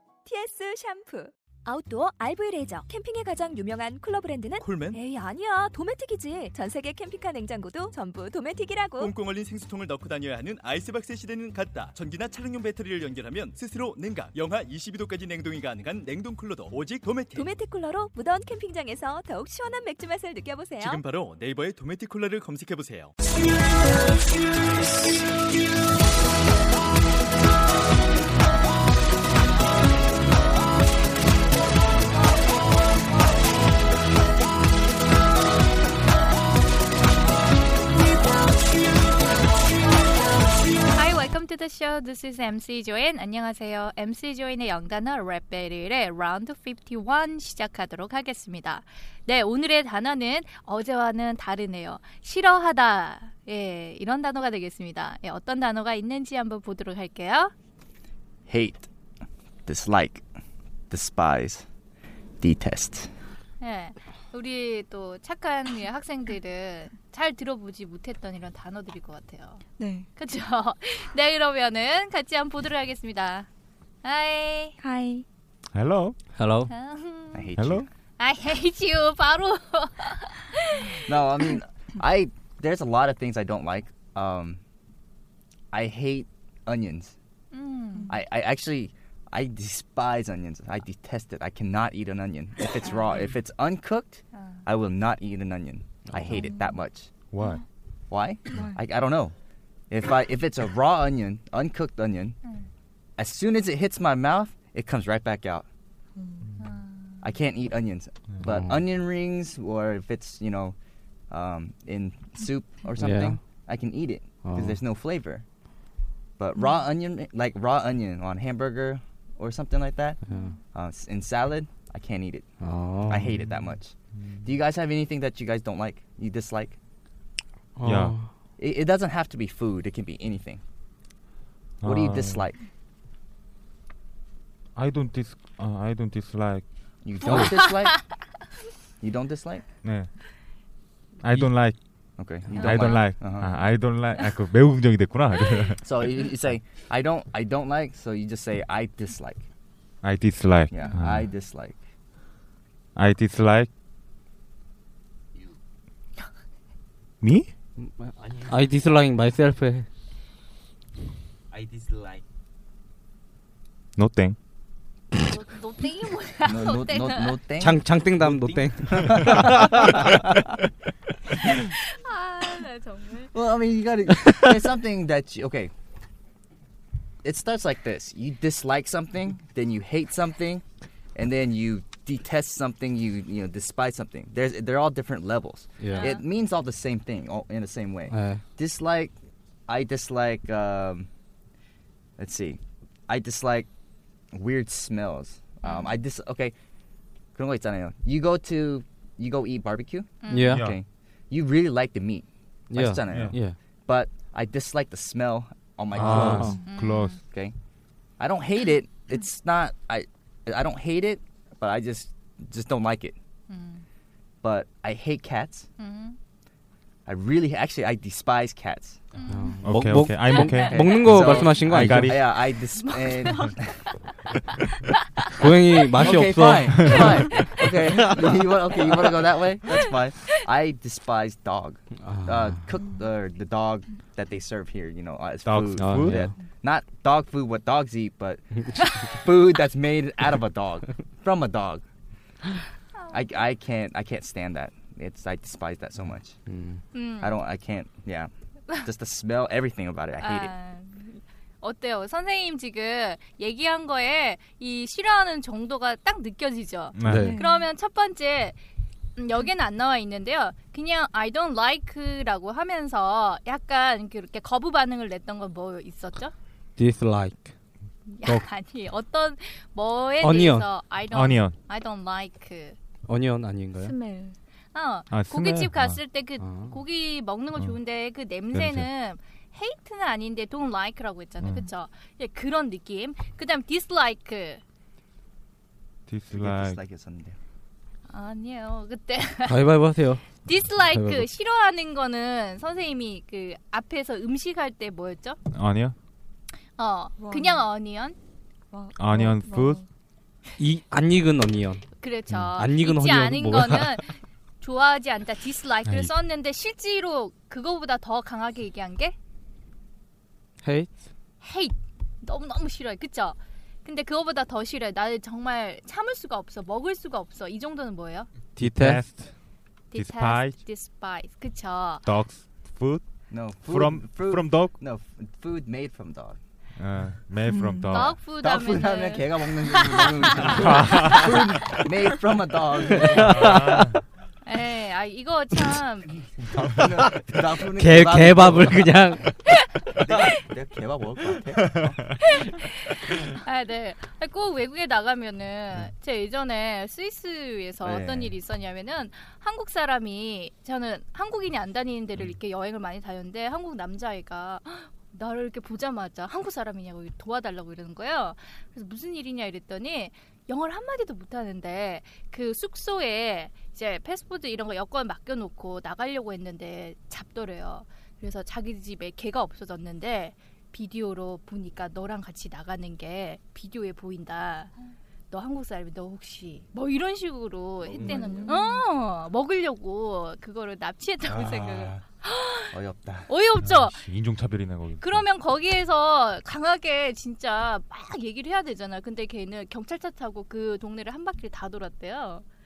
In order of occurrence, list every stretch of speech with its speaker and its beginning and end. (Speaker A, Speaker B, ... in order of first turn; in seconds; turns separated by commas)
Speaker A: 0.2-9.1, Speaker B: 4.6-4.9, Speaker B: 9.0-17.4, Speaker A: 17.3-21.0, Speaker B: 20.8-23.1, Speaker C: 40.9-57.5, Speaker D: 58.5-58.9, Speaker D: 59.6-60.2, Speaker D: 60.9-61.6, Speaker D: 62.4-63.1, Speaker C: 63.6-69.6, Speaker E: 69.8-70.1, Speaker C: 70.2-73.5, Speaker C: 74.0-74.7, Speaker E: 74.8-75.2, Speaker F: 75.7-76.2, Speaker G: 76.3-76.7, Speaker C: 76.7-77.5, Speaker D: 77.3-77.9, Speaker F: 77.6-77.8, Speaker C: 78.2-81.1, Speaker D: 81.0-84.6, Speaker D: 85.7-87.1, Speaker C: 87.5-88.1, Speaker D: 88.1-97.1, Speaker G: 96.1-96.4, Speaker F: 97.3-97.6, Speaker D: 98.1-99.3, Speaker D: 99.9-102.4, Speaker D: 103.2-105.7, Speaker C: 106.6-107.2, Speaker D: 107.2-110.7, Speaker F: 108.3-108.6, Speaker G: 108.5-108.8, Speaker D: 111.3-115.5, Speaker G: 113.0-113.4, Speaker G: 114.4-114.8, Speaker D: 116.4-120.2, Speaker G: 120.3-120.5, Speaker D: 120.7-122.5, Speaker G: 122.6-123.3, Speaker D: 123.1-126.8, Speaker F: 124.2-124.5, Speaker G: 127.8-128.3, Speaker F: 127.8-128.2, Speaker D: 128.6-130.6, Speaker F: 131.8-132.4, Speaker D: 131.8-132.6, Speaker F: 134.8-137.5, Speaker D: 137.0-138.0, Speaker C: 137.2-138.1, Speaker D: 139.0-139.6, Speaker F: 139.8-140.1, Speaker F: 141.2-145.8, Speaker D: 142.2-143.5, Speaker C: 142.5-143.1, Speaker D: 145.8-149.4, Speaker F: 150.0-151.3, Speaker D: 150.7-151.8, Speaker F: 152.9-153.7, Speaker F: 157.2-157.5, Speaker G: 157.8-159.9, Speaker H: 158.2-158.6, Speaker H: 161.5-162.2, Speaker F: 164.0-164.3, Speaker C: 165.2-167.4, Speaker D: 166.4-167.8, Speaker G: 167.6-169.9, Speaker H: 168.1-169.2, Speaker D: 168.9-170.1, Speaker C: 171.5-173.3, Speaker D: 173.3-175.7, Speaker D: 177.2-180.6, Speaker D: 181.1-189.1, Speaker G: 185.8-186.1, Speaker C: 185.9-186.2, Speaker G: 188.1-188.4, Speaker D: 189.7-191.1, Speaker D: 192.2-193.7, Speaker D: 194.3-196.5, Speaker C: 195.6-195.9, Speaker D: 197.3-206.7, Speaker C: 200.2-200.6, Speaker G: 200.3-200.7, Speaker F: 200.5-200.8, Speaker G: 202.7-203.6, Speaker F: 203.1-203.4, Speaker F: 205.9-207.2, Speaker G: 206.0-206.6, Speaker C: 206.6-207.2, Speaker D: 208.2-213.2, Speaker C: 213.5-213.8, Speaker D: 214.4-215.7, Speaker C: 215.8-216.2, Speaker D: 217.1-219.0, Speaker C: 219.1-220.7, Speaker G: 219.3-222.1, Speaker F: 219.6-222.2, Speaker D: 220.5-223.8, Speaker C: 222.7-223.6, Speaker G: 225.4-227.3, Speaker D: 226.0-241.8, Speaker F: 226.7-227.1, Speaker C: 226.9-227.7, Speaker G: 228.0-228.4, Speaker G: 232.0-232.6, Speaker F: 235.4-236.3, Speaker G: 235.8-236.3, Speaker D: 243.1-246.4, Speaker G: 246.5-246.8, Speaker C: 246.9-247.4, Speaker D: 247.2-250.5, Speaker C: 250.2-258.6, Speaker F: 256.9-257.3, Speaker G: 257.0-257.4, Speaker E: 257.1-257.6, Speaker C: 259.2-266.3, Speaker G: 266.8-267.4, Speaker C: 268.1-272.8, Speaker G: 270.2-270.7, Speaker F: 271.1-271.6, Speaker G: 273.1-273.9, Speaker E: 273.8-274.4, Speaker C: 274.7-284.6, Speaker F: 275.1-276.0, Speaker G: 276.4-276.8, Speaker F: 277.6-277.8, Speaker F: 278.5-278.9, Speaker F: 281.4-281.7, Speaker F: 286.1-286.8, Speaker D: 286.3-287.4, Speaker C: 288.1-289.7, Speaker G: 289.4-291.3, Speaker C: 290.4-295.4, Speaker F: 295.5-295.9, Speaker C: 296.8-298.1, Speaker E: 297.2-297.6, Speaker E: 298.7-299.8, Speaker F: 298.9-299.8, Speaker G: 300.6-301.9, Speaker C: 302.0-309.1, Speaker G: 302.5-304.0, Speaker F: 305.9-306.1, Speaker G: 310.6-310.9, Speaker C: 311.4-318.3, Speaker G: 318.6-319.0, Speaker F: 318.6-319.3, Speaker C: 319.9-322.1, Speaker F: 319.9-320.6, Speaker F: 322.0-324.8, Speaker D: 323.3-326.4, Speaker F: 326.8-328.2, Speaker C: 327.9-331.2, Speaker D: 328.3-333.6, Speaker F: 330.5-331.2, Speaker F: 333.1-334.0, Speaker G: 333.2-333.8, Speaker C: 334.4-336.2, Speaker D: 336.6-338.8, Speaker G: 337.7-339.4, Speaker D: 339.9-342.0, Speaker C: 342.4-374.7, Speaker D: 347.8-348.4, Speaker C: 375.3-382.7, Speaker H: 377.8-378.5, Speaker D: 377.9-378.5, Speaker D: 381.3-382.0, Speaker D: 382.7-383.3, Speaker C: 383.3-384.1, Speaker F: 383.6-385.2, Speaker C: 385.0-392.4